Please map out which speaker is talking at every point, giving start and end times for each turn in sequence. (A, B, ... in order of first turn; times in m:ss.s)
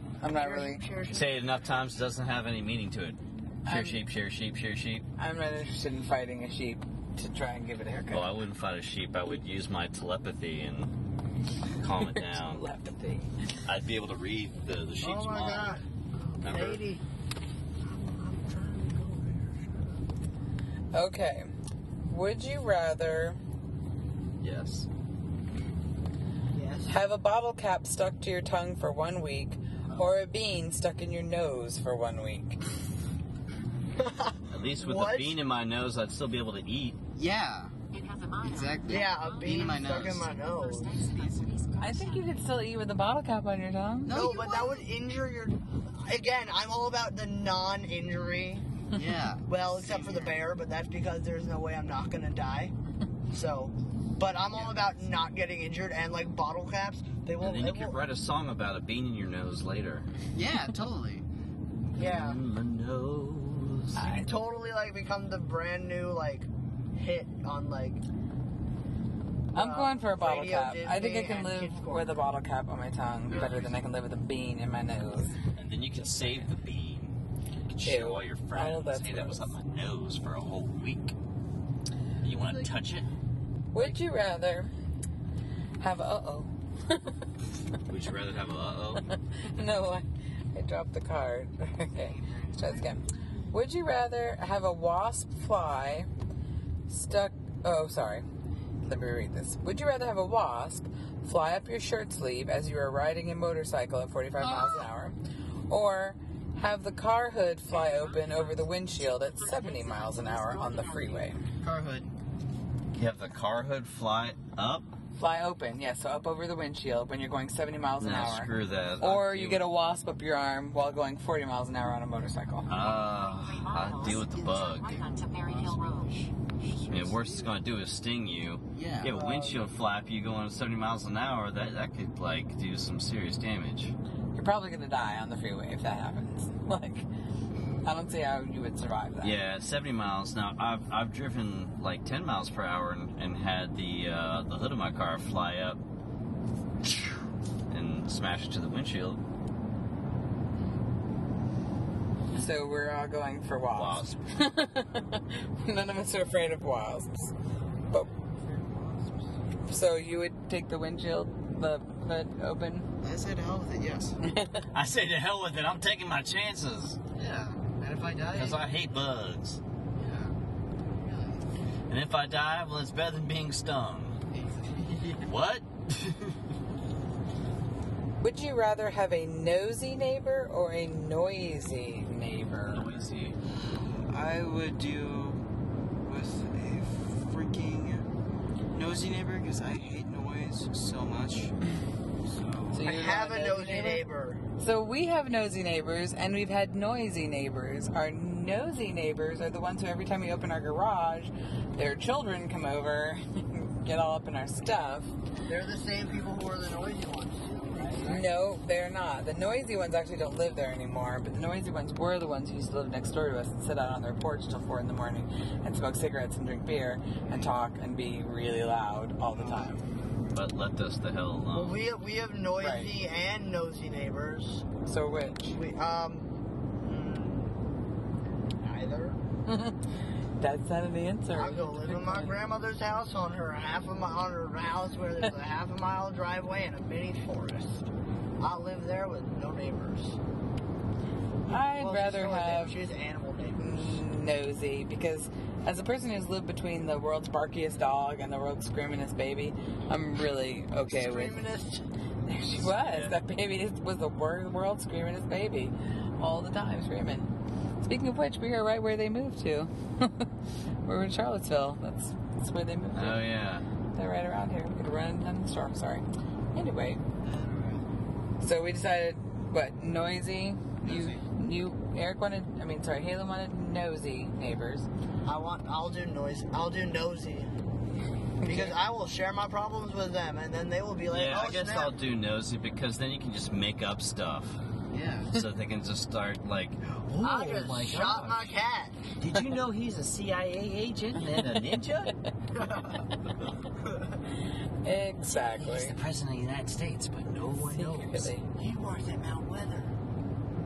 0:00.2-0:00.8 A
0:00.3-0:01.4 B
0:01.1-0:05.0 C
0:03.7-0:04.0 A
0:05.2-0:08.3 A
0:08.1-0:10.9 C
0:11.7-0:12.7 C
0:12.0-0:13.4 A
0:13.7-0:15.8 C
0:15.0-0:17.0 B
0:16.4-0:16.8 C
0:17.8-0:19.9 B
0:20.9-0:21.5 A
0:22.1-0:23.4 A
0:24.4-0:24.9 C
0:26.5-0:27.0 B
0:26.9-0:32.6 A
0:34.0-0:35.4 B
0:34.5-0:37.0 C
0:37.2-0:37.8 D
0:37.9-0:38.3 E
0:38.4-0:42.0 D
0:38.9-0:41.1 B
0:39.2-0:39.5 E
0:41.0-0:41.8 E
0:41.8-0:44.2 A
0:44.0-0:44.8 D
0:44.1-0:48.7 B
0:48.9-0:50.4 D
0:49.5-0:52.7 B
0:53.3-0:58.0 B
0:57.4-1:00.1 C
1:00.3-1:01.2 D
1:02.0-1:02.4 B
1:02.0-1:04.0 C
1:04.0-1:04.3 A
1:04.0-1:08.0 B
1:09.5-1:12.2 B
1:09.5-1:15.4 A
1:15.6-1:17.2 C
1:17.7-1:21.2 C
1:17.8-1:19.5 A
1:22.2-1:23.1 C
1:22.4-1:22.8 D
1:23.7-1:24.7 A
1:25.8-1:27.0 A
1:27.9-1:29.1 C
1:29.4-1:36.1 A
1:31.9-1:32.9 D
1:36.9-1:38.2 A
1:38.8-1:45.2 A
1:44.4-1:44.9 D
1:45.7-1:51.4 A
1:47.7-1:48.5 D
1:49.3-1:52.1 D
1:52.9-1:54.9 C
1:55.2-2:02.7 A
1:58.0-1:59.6 C
2:02.7-2:05.0 C
2:03.2-2:06.1 E
2:03.8-2:07.6 D
2:06.9-2:13.9 C
2:08.8-2:09.2 D
2:09.0-2:09.7 B
2:14.3-2:17.1 A
2:17.8-2:19.4 A
2:19.2-2:25.8 C
2:27.7-2:29.2 C
2:32.3-2:37.3 A
2:33.7-2:34.3 C
2:38.4-2:39.3 D
2:39.7-2:42.9 A
2:43.0-2:44.2 D
2:44.2-2:44.6 A
2:44.7-2:47.0 C
2:47.2-2:48.7 D
2:48.3-2:49.6 C
2:50.0-2:50.4 D
2:50.9-2:51.5 D
2:51.9-2:54.2 C
2:54.3-2:55.3 D
2:55.3-2:56.4 C
2:58.2-3:03.0 A
3:02.7-3:03.4 C
3:03.6-3:05.4 D
3:06.0-3:08.0 D
3:08.7-3:11.5 D
3:12.3-3:12.6 D
3:12.7-3:14.0 A
3:12.8-3:14.4 B
3:14.6-3:25.1 A
3:25.5-3:28.3 B
3:28.0-3:39.8 A
3:39.4-3:39.7 B
3:40.3-3:41.8 C
3:41.5-3:44.7 B
3:42.6-3:42.9 A
3:44.9-3:45.6 A
3:45.5-3:47.6 B
3:48.6-3:49.2 B
3:49.5-3:49.8 A
3:50.4-3:52.4 A
3:51.3-3:57.9 B
3:58.4-4:00.2 B
4:01.5-4:04.0 B
4:01.5-4:02.8 A
4:03.6-4:11.4 A
4:10.9-4:11.8 B
4:12.3-4:17.3 A
4:12.6-4:13.2 C
4:17.8-4:20.3 A
4:20.8-4:23.3 A
4:23.0-4:23.7 C
4:23.9-4:27.0 A
4:27.2-4:27.9 D
4:28.4-4:34.9 A
4:30.8-4:31.2 D
4:35.2-4:37.5 B
4:38.4-4:38.8 A
4:38.4-4:41.9 B
4:41.1-4:44.6 C
4:44.9-4:45.4 D
4:45.3-4:48.4 C
4:47.2-4:49.0 B
4:49.2-4:52.1 C
4:52.6-4:53.0 B
4:54.8-4:56.0 A
4:55.3-4:58.3 C
4:57.6-4:58.5 A
4:58.6-4:59.6 B